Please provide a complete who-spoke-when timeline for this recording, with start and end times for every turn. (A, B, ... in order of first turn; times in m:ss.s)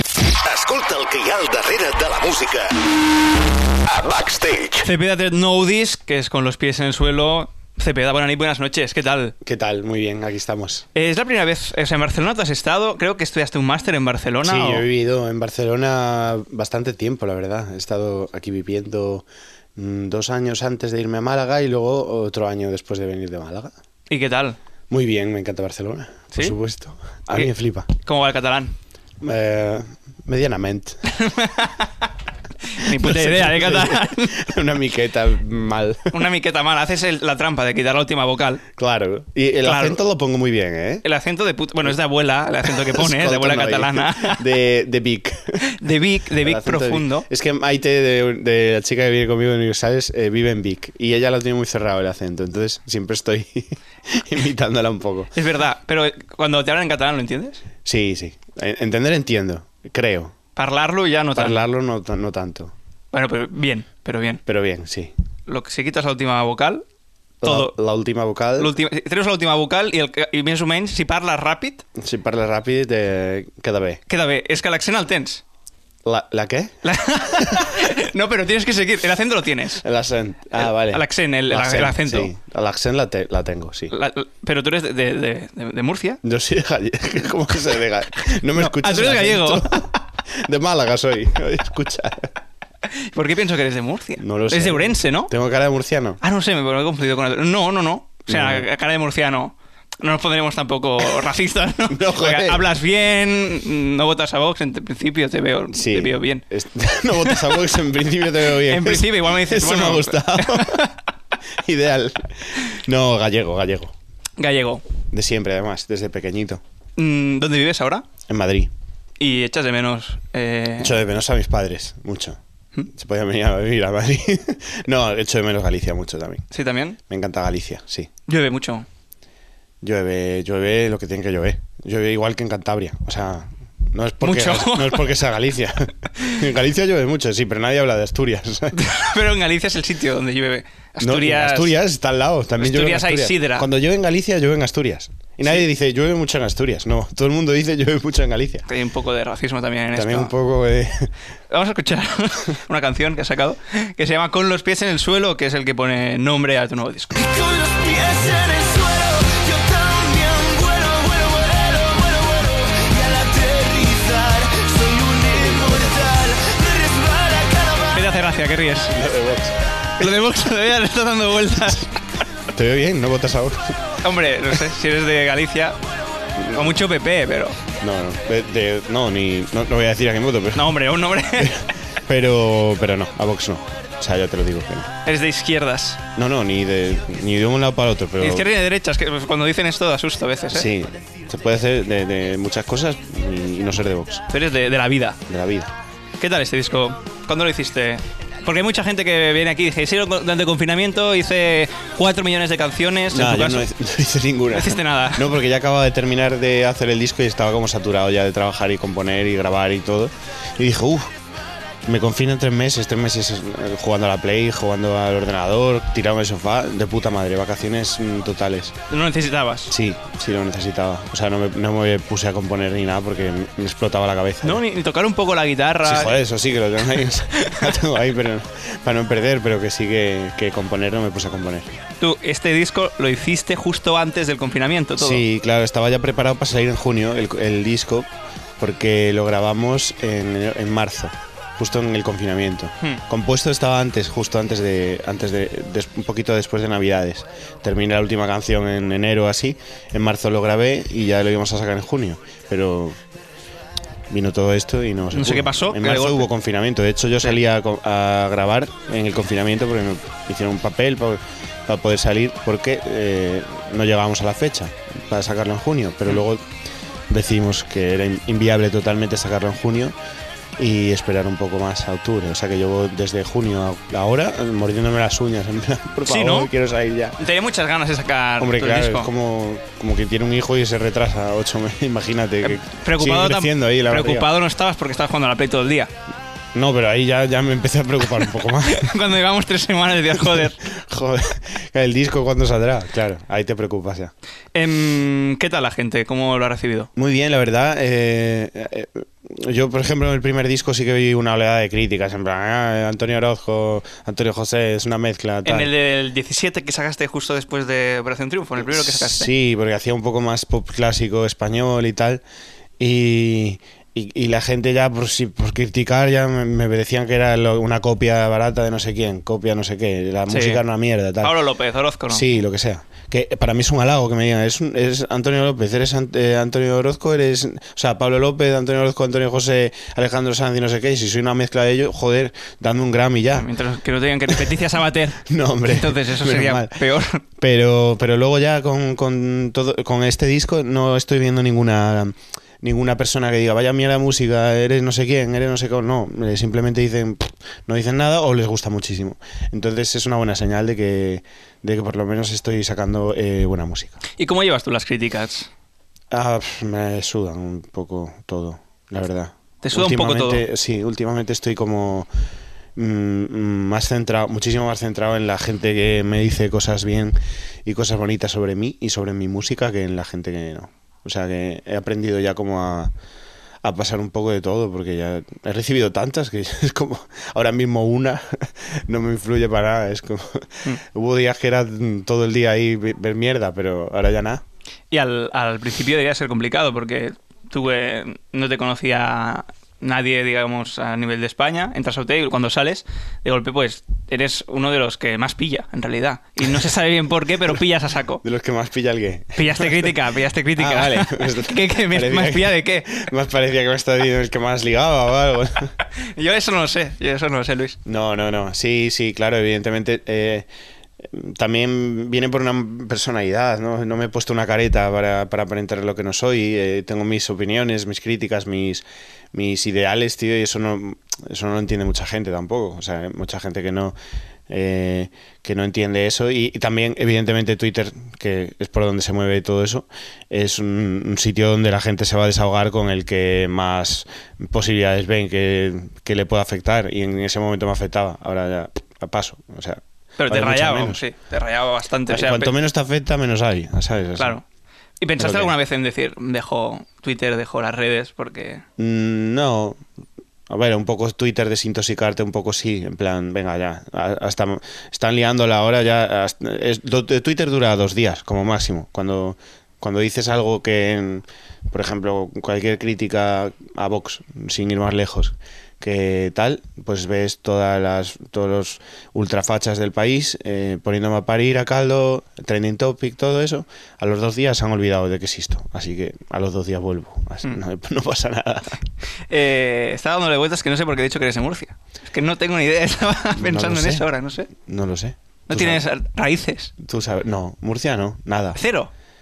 0:00.4-0:02.8 A
0:03.8-0:04.9 A
0:04.8-0:09.3 B
0:09.4-0:10.9 C
0:10.9-0:14.8 B
0:14.4-0:23.7 C
0:24.1-0:24.6 B
0:24.9-0:27.9 C
0:27.3-0:28.8 B
0:29.2-0:31.0 C
0:31.1-0:31.9 B
0:32.7-0:34.5 B
0:32.8-0:36.1 C
0:36.1-0:38.6 B
0:38.7-0:41.0 C
0:39.6-0:40.0 B
0:41.0-0:44.4 B
0:42.6-0:45.6 C
0:45.6-0:47.3 B
0:46.4-0:55.3 C
0:55.3-0:57.6 B
0:57.8-1:00.3 C
1:00.6-1:01.6 B
1:01.3-1:02.7 C
1:03.1-1:04.4 B
1:04.4-1:05.1 C
1:05.5-1:06.8 B
1:07.4-1:08.7 C
1:07.4-1:07.7 B
1:08.6-1:11.8 B
1:12.0-1:14.0 C
1:14.1-1:15.4 B
1:16.0-1:17.7 C
1:16.8-1:19.8 B
1:19.8-1:23.9 C
1:20.5-1:22.3 B
1:23.9-1:26.2 B
1:26.2-1:32.3 C
1:28.5-1:29.8 B
1:32.9-1:35.3 B
1:34.2-1:36.2 C
1:36.2-1:46.4 B
1:38.3-1:38.6 C
1:41.9-1:42.6 C
1:45.7-1:50.8 C
1:47.2-1:47.6 B
1:48.6-1:50.9 B
1:51.5-1:53.9 C
1:54.4-1:54.8 B
1:55.1-1:56.6 C
1:57.0-1:58.0 B
1:58.3-1:58.7 C
1:59.2-2:01.0 B
2:00.8-2:02.4 C
2:02.9-2:06.4 C
2:06.5-2:07.0 B
2:07.0-2:08.1 C
2:08.3-2:08.8 B
2:09.8-2:18.8 C
2:14.2-2:15.1 B
2:18.7-2:21.7 B
2:21.0-2:28.7 C
2:22.6-2:23.7 B
2:28.7-2:30.3 B
2:29.9-2:31.1 C
2:31.5-2:37.2 B
2:37.1-2:48.0 D
2:47.9-2:49.0 B
2:48.9-2:49.6 C
2:50.0-2:51.9 B
2:52.5-2:54.0 C
2:54.0-2:55.8 B
2:56.4-2:56.7 C
2:56.5-2:57.6 B
2:57.8-3:04.9 C
3:00.5-3:01.6 B
3:05.0-3:06.0 B
3:06.2-3:08.5 C
3:08.2-3:10.7 B
3:10.5-3:14.2 C
3:14.3-3:15.2 B
3:15.3-3:15.7 C
3:16.2-3:23.6 B
3:23.1-3:31.1 C
3:24.5-3:25.3 B
3:31.8-3:38.8 C
3:38.9-3:39.7 B
3:39.7-3:44.6 C
3:44.4-3:46.1 B
3:45.8-3:51.7 C
3:47.3-3:47.7 B
3:52.0-3:55.2 B
3:55.0-4:13.0 C
4:14.1-4:26.5 C
4:15.1-4:16.3 B
4:27.1-4:30.0 C
4:30.6-4:37.2 C
4:36.1-4:36.5 B
4:37.2-4:39.1 B
4:38.4-4:44.3 C
4:42.4-4:45.9 B
4:46.5-4:48.9 C
4:48.6-4:50.6 B
4:50.2-4:54.1 C
4:54.5-4:56.9 B
4:57.0-5:05.7 C
5:05.4-5:09.3 B
5:08.6-5:12.2 C
5:12.8-5:21.4 C
5:20.3-5:20.6 B
5:21.2-5:22.3 B
5:22.1-5:33.5 C
5:33.3-5:37.2 B
5:35.2-5:36.8 C
5:37.4-5:54.0 C
5:54.2-5:55.5 B
5:56.1-6:02.1 C
5:59.6-6:00.4 B
6:02.8-6:12.9 C
6:13.6-6:24.4 C
6:24.9-6:38.2 B
6:38.2-6:40.0 C
6:39.4-6:43.0 B
6:40.6-6:45.7 C
6:46.0-6:47.8 B
6:47.8-6:50.5 C
6:51.0-7:03.9 C
7:04.5-7:21.0 C
7:20.2-7:22.5 B
7:22.1-7:24.4 C
7:24.2-7:24.4 B
7:25.0-7:28.6 B
7:25.2-7:25.5 C
7:28.8-7:29.8 C
7:30.5-7:58.8 C
7:59.3-8:04.5 B
8:03.4-8:05.8 C
8:05.5-8:06.7 B
8:06.8-8:08.6 C
8:08.5-8:08.9 B